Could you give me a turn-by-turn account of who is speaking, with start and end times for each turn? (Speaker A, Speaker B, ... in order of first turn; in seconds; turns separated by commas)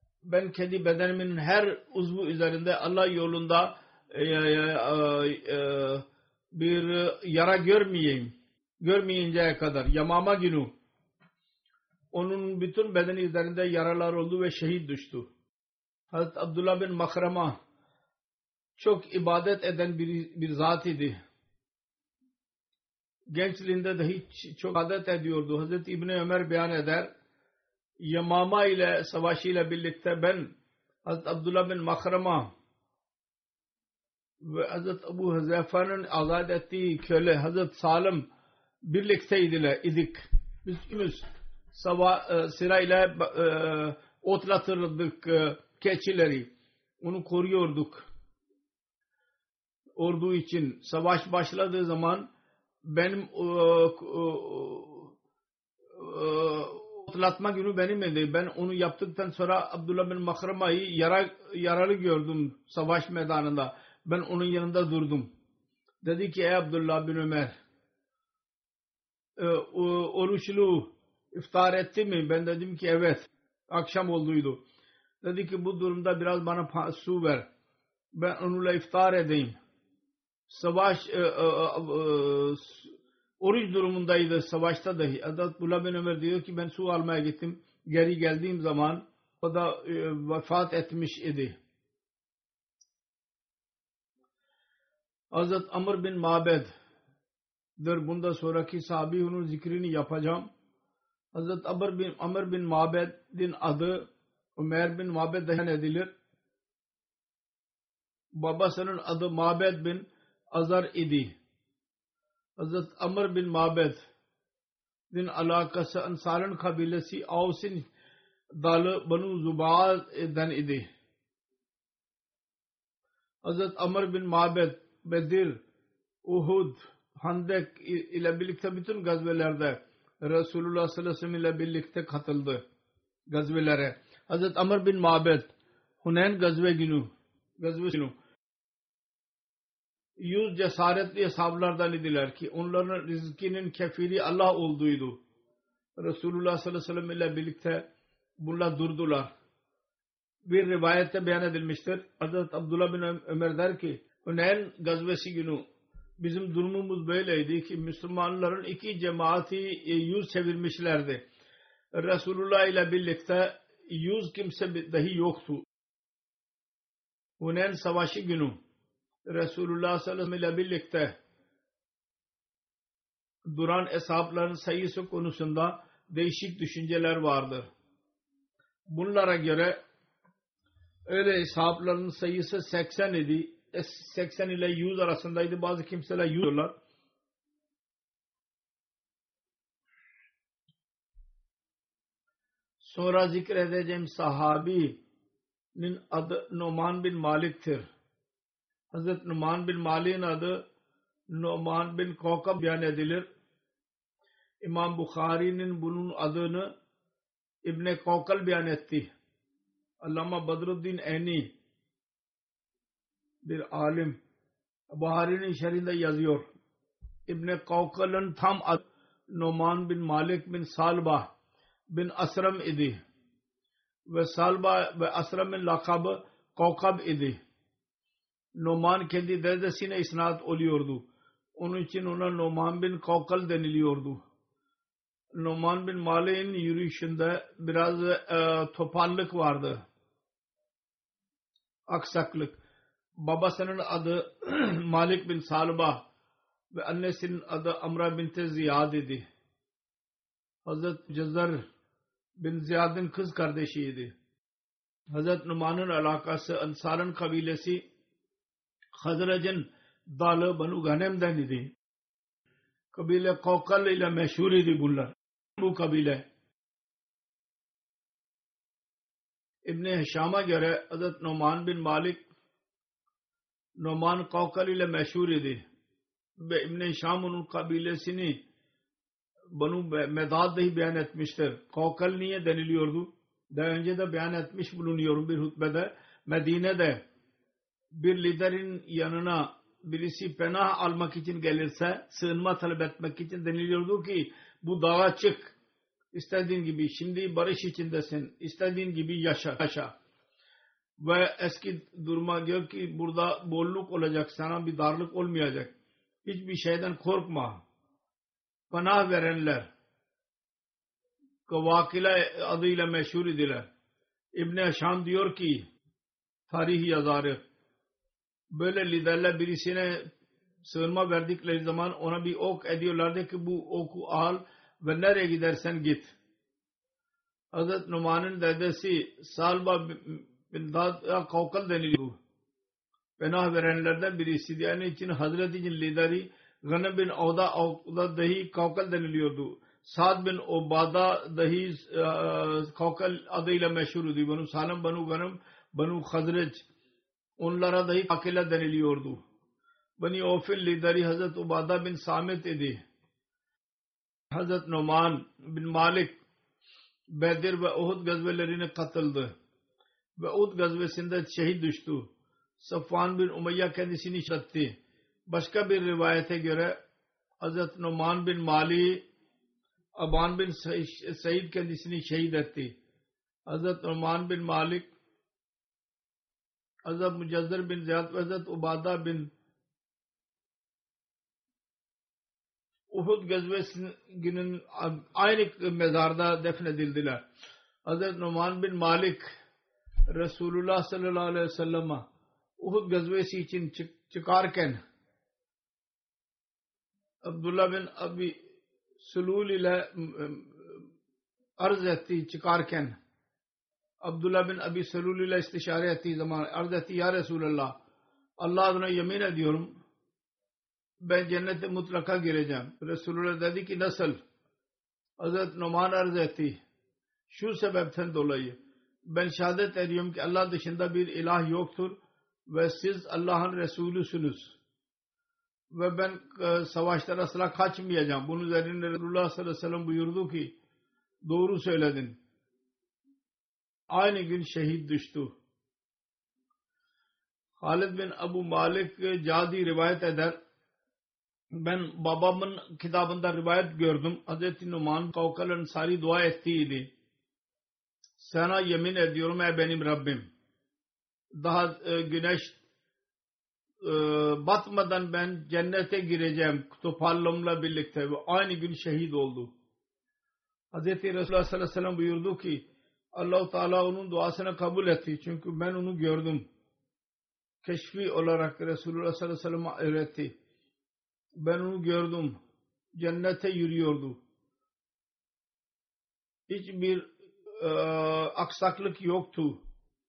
Speaker A: 0.2-10.7, Speaker A: 12.1-15.3, Speaker A: 16.1-17.6, Speaker A: 18.8-21.2, Speaker A: 23.3-27.1, Speaker A: 28.0-30.5, Speaker A: 31.1-32.5, Speaker A: 34.4-38.3, Speaker A: 38.9-46.5, Speaker A: 47.0-48.0, Speaker A: 50.0-52.3, Speaker A: 52.9-55.1, Speaker A: 55.9-65.3, Speaker A: 66.0-67.5, Speaker A: 69.4-74.6, Speaker A: 75.2-77.5, Speaker A: 78.1-79.6, Speaker A: 80.5-91.5, Speaker A: 95.3-96.7, Speaker A: 97.8-100.5, Speaker A: 101.3-106.1, Speaker A: 108.3-111.3, Speaker A: 112.6-114.0, Speaker A: 115.1-117.8, Speaker A: 118.6-120.9, Speaker A: 123.4-125.6, Speaker A: 126.2-132.6, Speaker A: 133.3-135.5, Speaker A: 136.0-138.1, Speaker A: 140.2-145.2, Speaker A: 146.0-147.9, Speaker A: 148.4-149.3, Speaker A: 150.5-155.6, Speaker A: 156.2-161.2, Speaker A: 161.9-165.6, Speaker A: 167.4-168.6, Speaker A: 169.3-171.2, Speaker A: 173.5-177.7, Speaker A: 178.9-179.8, Speaker A: 181.1-186.7, Speaker A: 192.8-195.0, Speaker A: 195.8-197.8, Speaker A: 198.9-200.6, Speaker A: 201.3-203.2, Speaker A: 204.6-206.7, Speaker A: 207.6-209.1, Speaker A: 210.0-211.5, Speaker A: 213.4-214.2, Speaker A: 214.9-216.5, Speaker A: 217.3-221.3, Speaker A: 221.9-223.0, Speaker A: 224.1-227.4, Speaker A: 228.6-231.1, Speaker A: 231.6-234.2, Speaker A: 235.4-239.8, Speaker A: 241.9-242.6, Speaker A: 243.2-246.0, Speaker A: 246.7-249.2, Speaker A: 250.7-251.6, Speaker A: 252.4-254.1, Speaker A: 255.1-257.8, Speaker A: 259.0-261.7, Speaker A: 262.9-266.2, Speaker A: 269.7-272.2, Speaker A: 273.8-275.6, Speaker A: 276.4-278.4, Speaker A: 279.5-287.0, Speaker A: 287.9-295.5, Speaker A: 296.1-299.9, Speaker A: 301.0-305.7, Speaker A: 306.2-307.6, Speaker A: 308.7-309.7, Speaker A: 311.5-313.7, Speaker A: 314.4-315.6, Speaker A: 316.5-317.4, Speaker A: 318.5-320.1, Speaker A: 320.6-326.1, Speaker A: 327.5-332.2, Speaker A: 333.2-346.6, Speaker A: 347.4-349.2, Speaker A: 350.0-352.8, Speaker A: 354.3-356.2, Speaker A: 357.1-359.3, Speaker A: 360.2-362.1, Speaker A: 362.6-364.8, Speaker A: 365.3-366.8, Speaker A: 367.4-369.0, Speaker A: 370.0-372.7, Speaker A: 373.5-374.9, Speaker A: 376.8-379.3, Speaker A: 382.9-387.2, Speaker A: 387.9-389.2, Speaker A: 390.1-392.0, Speaker A: 392.6-394.8, Speaker A: 397.2-398.4, Speaker A: 399.0-400.8, Speaker A: 401.6-402.9, Speaker A: 404.0-407.7, Speaker A: 408.4-409.7, Speaker A: 411.0-414.2, Speaker A: 415.2-416.6, Speaker A: 417.3-418.6, Speaker A: 419.1-422.0, Speaker A: 422.5-424.5, Speaker A: 425.7-430.5, Speaker A: 431.2-432.2, Speaker A: 433.9-435.3, Speaker A: 437.6-440.4, Speaker A: 441.5-446.9, Speaker A: 448.2-450.3, Speaker A: 451.4-452.6, Speaker A: 453.8-459.5, Speaker A: 460.7-466.4, Speaker A: 467.6-470.3, Speaker A: 471.4-472.4, Speaker A: 472.9-474.2, Speaker A: 476.5-479.6